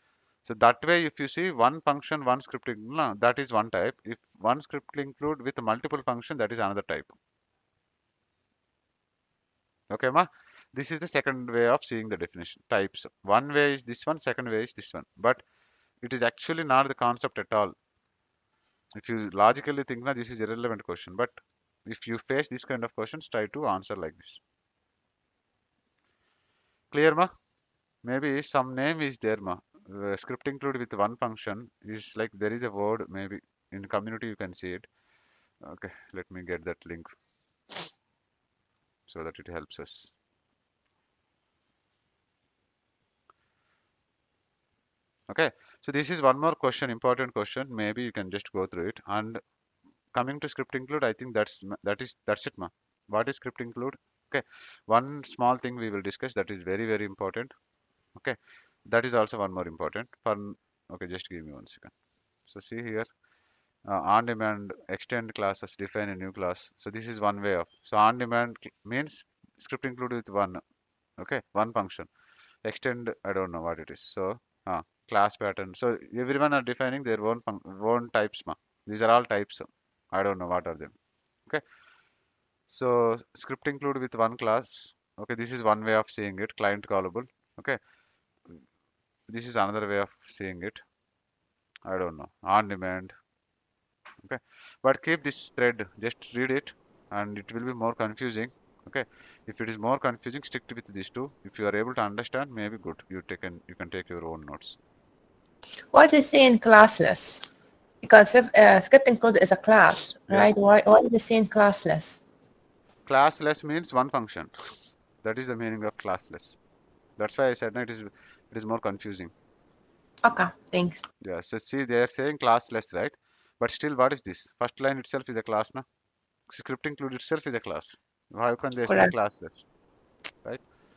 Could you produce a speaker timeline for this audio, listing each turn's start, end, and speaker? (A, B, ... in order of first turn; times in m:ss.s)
0:00.4-0:07.2 A
0:09.9-0:15.4 A
0:16.0-0:17.7 A
0:18.9-0:24.4 A
0:26.9-0:27.3 A
0:28.0-0:34.9 A
0:35.6-0:37.1 A
0:39.1-0:40.1 A
0:45.3-0:49.4 A
0:50.1-0:57.5 A
0:58.2-1:01.9 A
1:02.5-1:03.1 A
1:03.9-1:10.6 A
1:11.2-1:12.1 A
1:12.6-1:21.0 A
1:22.7-1:27.8 A
1:29.3-1:30.8 A
1:31.9-1:33.1 A
1:34.2-1:44.8 A
1:45.9-1:47.4 B
1:48.0-1:52.2 B
1:53.1-1:56.6 A
1:57.2-1:59.3 A
2:00.2-2:01.0 B
2:01.2-2:05.8 A
2:06.5-2:09.6 A
2:08.8-2:09.1 B